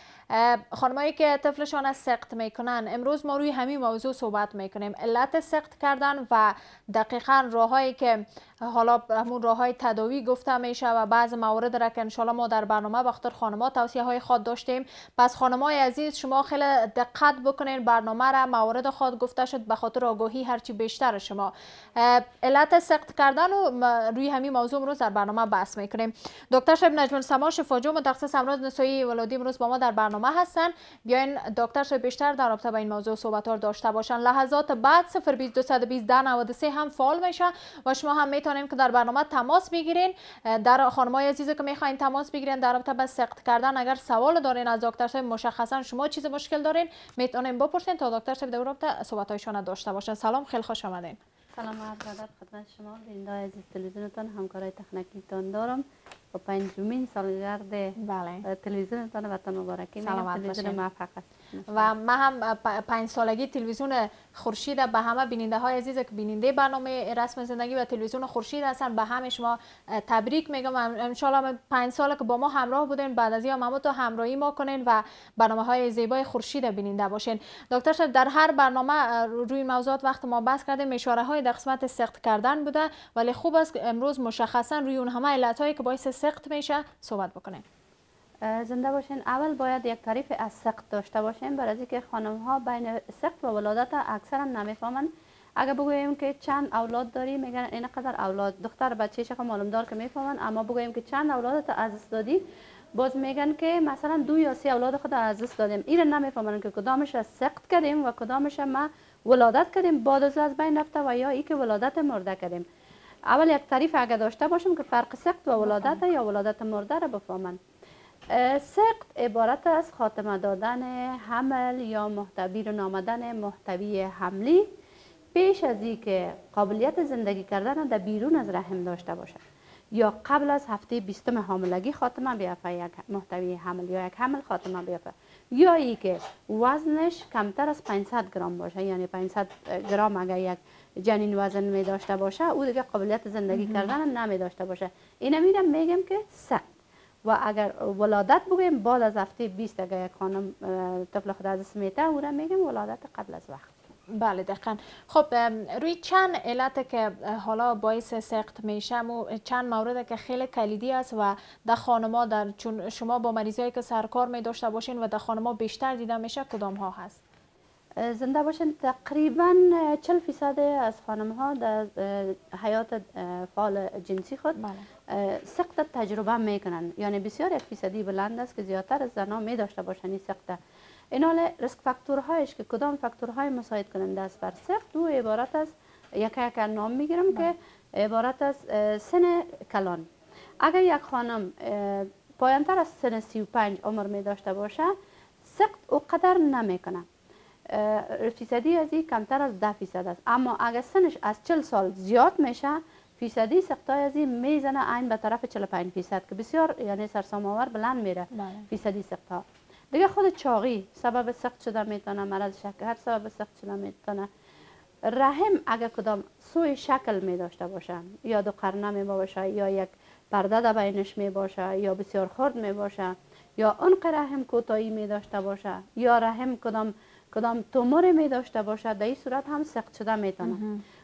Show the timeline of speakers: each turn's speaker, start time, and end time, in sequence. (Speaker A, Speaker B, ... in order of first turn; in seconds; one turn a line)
Speaker A: 0.3-51.2
Speaker B: 51.6-61.9
Speaker A: 58.0-58.4
Speaker A: 60.0-60.8
Speaker A: 61.7-87.6
Speaker B: 88.4-102.4
Speaker B: 103.0-112.7
Speaker B: 113.3-117.6
Speaker A: 115.6-116.0
Speaker B: 118.3-124.7
Speaker B: 125.3-129.4
Speaker B: 130.0-146.6
Speaker A: 143.5-143.9
Speaker B: 147.3-153.7
Speaker A: 154.2-167.2
Speaker B: 168.0-180.6
Speaker A: 174.6-174.9
Speaker B: 181.1-190.1
Speaker B: 190.6-194.9
Speaker B: 195.4-197.1
Speaker B: 197.7-214.3
Speaker A: 208.3-208.7
Speaker B: 215.0-230.6
Speaker A: 230.4-230.8